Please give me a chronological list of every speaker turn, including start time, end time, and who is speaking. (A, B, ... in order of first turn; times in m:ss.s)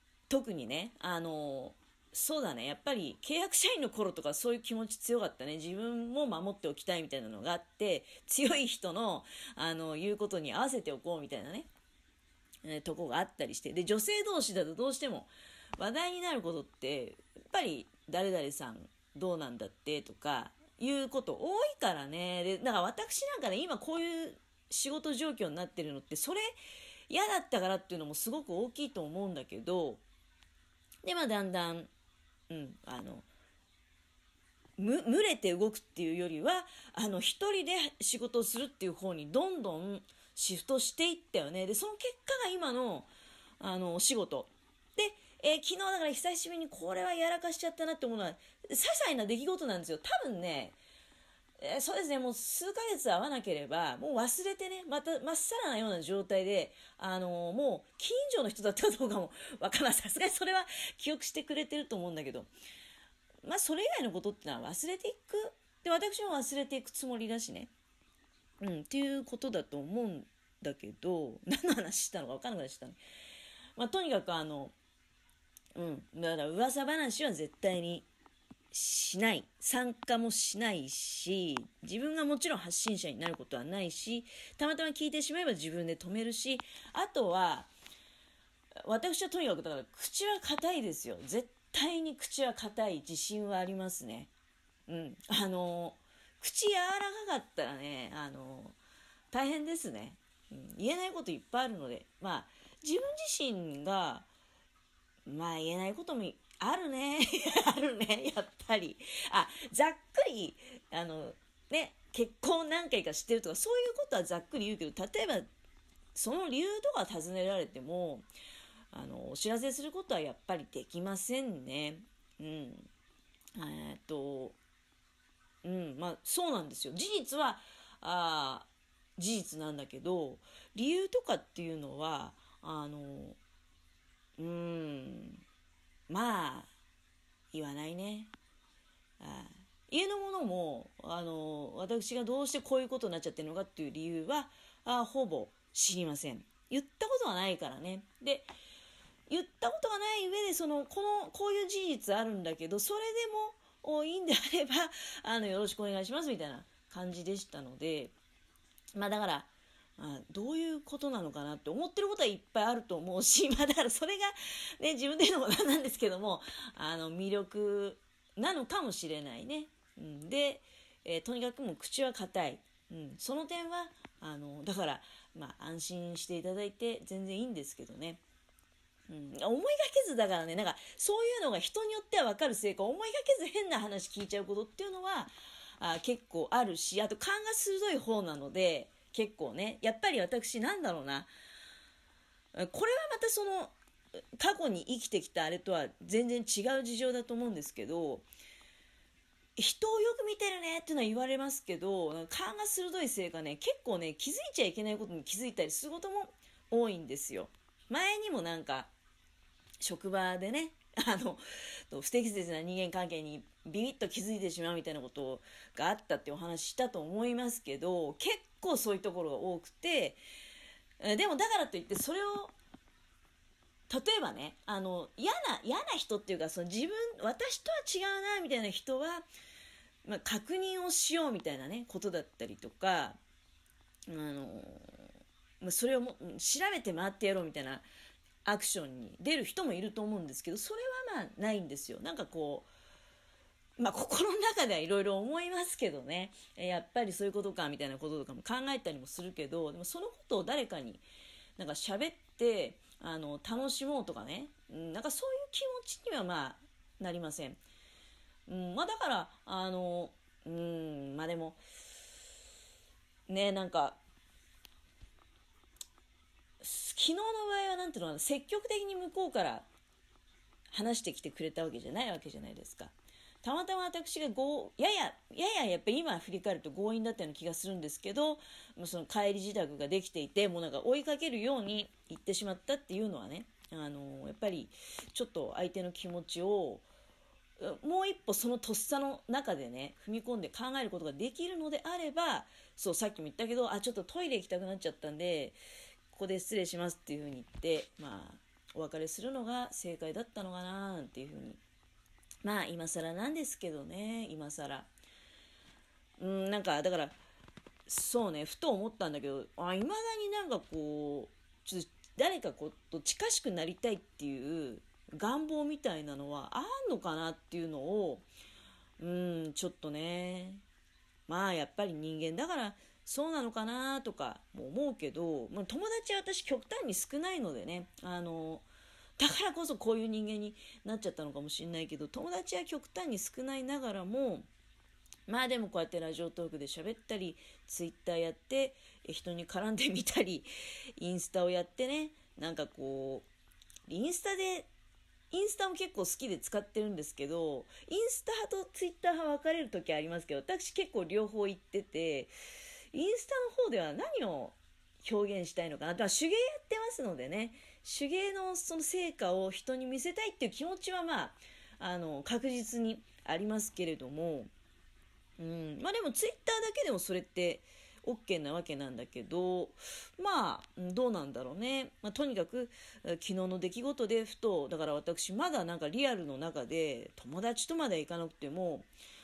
0:00.3-0:11.7 A
0:12.6-0:26.5 A
0:27.1-0:30.0 A
0:31.0-0:31.9 A
0:32.5-0:33.2 A
0:34.8-0:43.1 A
0:43.6-0:50.8 A
0:51.6-1:02.5 A
1:03.4-1:07.7 A
1:08.6-1:13.0 A
1:13.8-1:14.7 A
1:15.7-1:18.0 A
1:18.7-1:27.7 A
1:28.8-1:34.3 A
1:34.9-1:38.8 A
1:39.3-1:44.3 A
1:45.2-1:55.5 A
1:56.1-1:58.3 A
1:58.9-2:02.9 A
2:03.5-2:04.6 A
2:05.6-2:13.4 A
2:14.4-2:15.4 A
2:16.1-2:16.7 A
2:17.5-2:18.3 A
2:19.2-2:28.5 A
2:29.3-2:38.1 A
2:38.9-2:58.2 A
2:59.1-3:11.3 A
3:12.5-3:13.7 A
3:14.4-3:18.3 A
3:19.6-3:28.9 A
3:29.8-3:40.2 A
3:41.0-3:42.5 A
3:43.9-3:49.2 A
3:50.0-3:53.2 A
3:54.1-3:55.0 A
3:55.6-3:57.8 A
3:58.4-4:02.7 A
4:03.8-4:11.0 A
4:11.6-4:17.6 A
4:18.5-4:21.6 A
4:23.3-4:24.0 A
4:26.6-4:29.7 A
4:30.7-4:46.8 A
4:47.6-4:55.6 A
4:56.1-5:01.6 A
5:02.4-5:04.9 A
5:06.2-5:07.2 A
5:07.9-5:18.3 A
5:19.0-5:20.6 A
5:21.3-5:28.7 A
5:29.2-5:34.5 A
5:35.3-5:43.2 A
5:43.9-5:44.7 A
5:45.3-5:52.3 A
5:52.9-6:04.5 A
6:05.4-6:18.9 A